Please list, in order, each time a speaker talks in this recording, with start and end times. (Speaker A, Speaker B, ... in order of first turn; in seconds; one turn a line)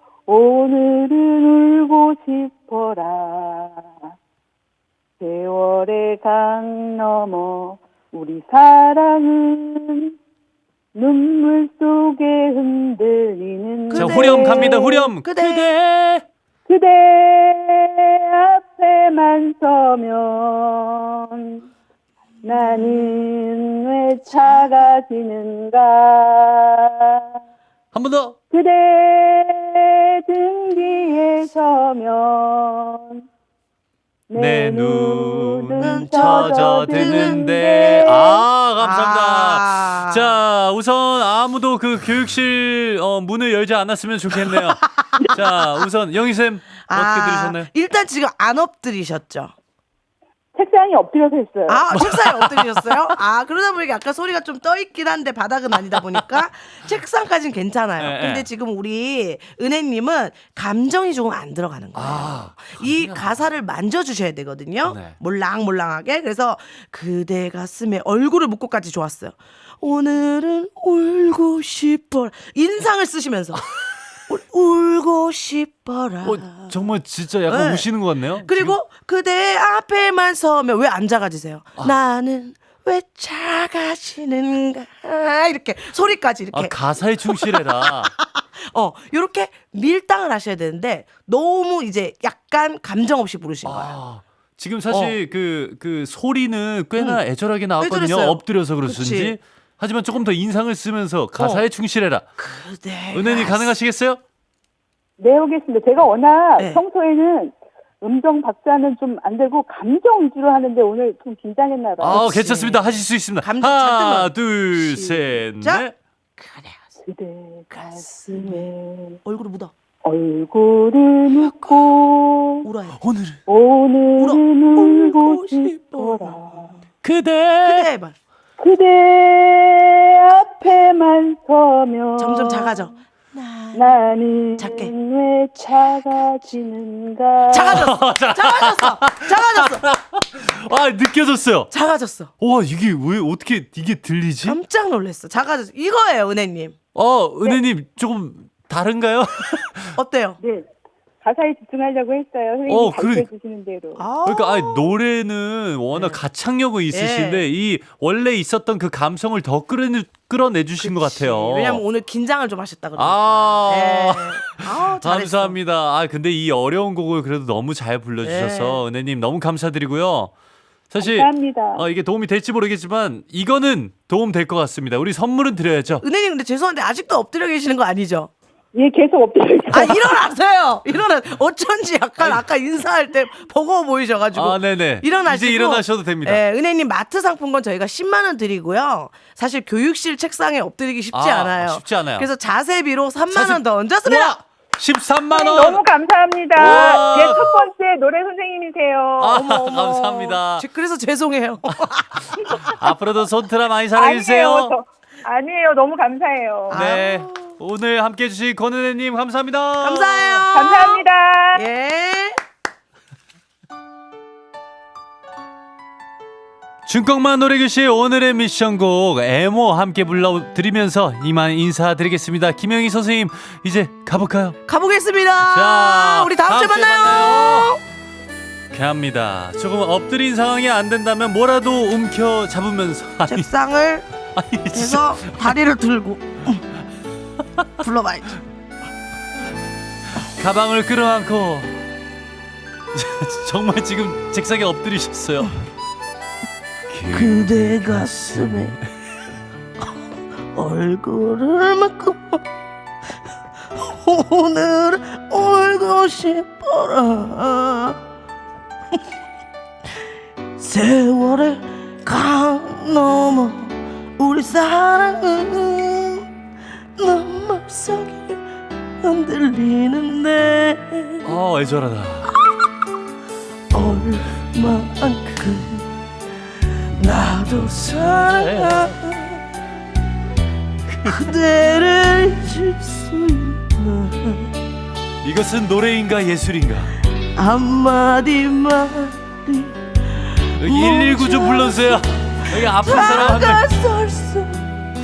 Speaker A: 0.3-3.9
Speaker A: 5.2-10.1
Speaker A: 10.9-15.0
Speaker B: 13.9-15.7
Speaker C: 13.9-16.3
Speaker A: 16.7-21.6
Speaker B: 22.4-23.3
Speaker A: 22.4-27.2
Speaker B: 24.3-24.9
Speaker C: 27.9-28.4
Speaker A: 28.5-33.2
Speaker A: 34.3-38.4
Speaker C: 34.4-47.7
Speaker B: 35.8-38.1
Speaker B: 38.8-40.4
Speaker B: 46.9-49.5
Speaker A: 50.5-51.9
Speaker B: 51.7-73.6
Speaker C: 51.9-53.2
Speaker C: 58.0-58.5
Speaker C: 61.9-63.4
Speaker C: 64.8-65.2
Speaker B: 74.3-76.8
Speaker C: 76.2-78.8
Speaker B: 77.5-77.9
Speaker B: 78.4-86.8
Speaker C: 86.5-88.1
Speaker B: 87.3-94.0
Speaker C: 93.7-102.3
Speaker B: 94.9-95.2
Speaker B: 97.8-99.4
Speaker B: 101.4-101.7
Speaker B: 102.4-103.8
Speaker C: 103.1-104.2
Speaker A: 105.2-112.3
Speaker C: 112.0-116.0
Speaker B: 112.0-112.8
Speaker B: 113.4-115.8
Speaker B: 116.4-116.9
Speaker A: 117.0-119.2
Speaker B: 117.7-118.7
Speaker B: 119.2-119.7
Speaker A: 120.0-122.7
Speaker B: 121.3-121.8
Speaker B: 122.6-123.0
Speaker C: 123.0-123.4
Speaker A: 123.5-126.8
Speaker B: 124.2-126.8
Speaker C: 127.0-127.9
Speaker B: 127.6-128.2
Speaker A: 128.6-132.9
Speaker B: 132.2-134.0
Speaker A: 133.7-137.8
Speaker B: 134.6-134.9
Speaker B: 137.5-139.8
Speaker C: 137.6-141.7
Speaker B: 141.7-142.3
Speaker C: 142.4-144.6
Speaker B: 144.4-146.8
Speaker C: 146.9-150.0
Speaker B: 150.0-150.4
Speaker A: 150.4-150.7
Speaker A: 151.2-154.1
Speaker C: 152.7-153.3
Speaker B: 154.0-154.9
Speaker C: 154.2-161.8
Speaker B: 155.9-156.2
Speaker B: 156.9-157.5
Speaker B: 160.8-165.6
Speaker C: 163.0-170.3
Speaker B: 168.2-168.8
Speaker C: 170.9-176.0
Speaker A: 171.0-171.9
Speaker B: 176.0-178.3
Speaker A: 178.8-180.3
Speaker B: 179.7-194.4
Speaker C: 184.3-186.4
Speaker C: 191.1-192.3
Speaker C: 193.3-195.8
Speaker A: 195.3-199.4
Speaker C: 196.6-197.7
Speaker C: 199.2-200.7
Speaker B: 199.3-202.5
Speaker A: 202.4-202.7
Speaker C: 202.5-204.8
Speaker A: 203.9-206.9
Speaker B: 206.7-207.6
Speaker C: 206.7-210.5
Speaker B: 209.8-211.0
Speaker A: 210.5-211.6
Speaker B: 211.6-212.4
Speaker C: 216.9-224.6
Speaker B: 224.7-227.8
Speaker C: 225.4-227.7
Speaker C: 228.7-233.5
Speaker B: 233.3-234.1
Speaker C: 234.3-235.6
Speaker B: 234.7-236.6
Speaker B: 237.8-238.4
Speaker C: 240.2-241.8
Speaker C: 242.9-245.5
Speaker C: 246.9-248.9
Speaker B: 247.1-248.8
Speaker B: 250.5-252.4
Speaker B: 253.7-258.0
Speaker B: 260.6-266.3
Speaker B: 267.0-268.4
Speaker B: 269.0-271.4
Speaker C: 271.2-272.3
Speaker B: 273.7-275.9
Speaker B: 276.9-279.4
Speaker C: 277.6-279.0
Speaker C: 280.9-281.1
Speaker B: 281.1-284.5
Speaker C: 285.2-286.9
Speaker B: 287.4-294.7
Speaker C: 290.6-293.6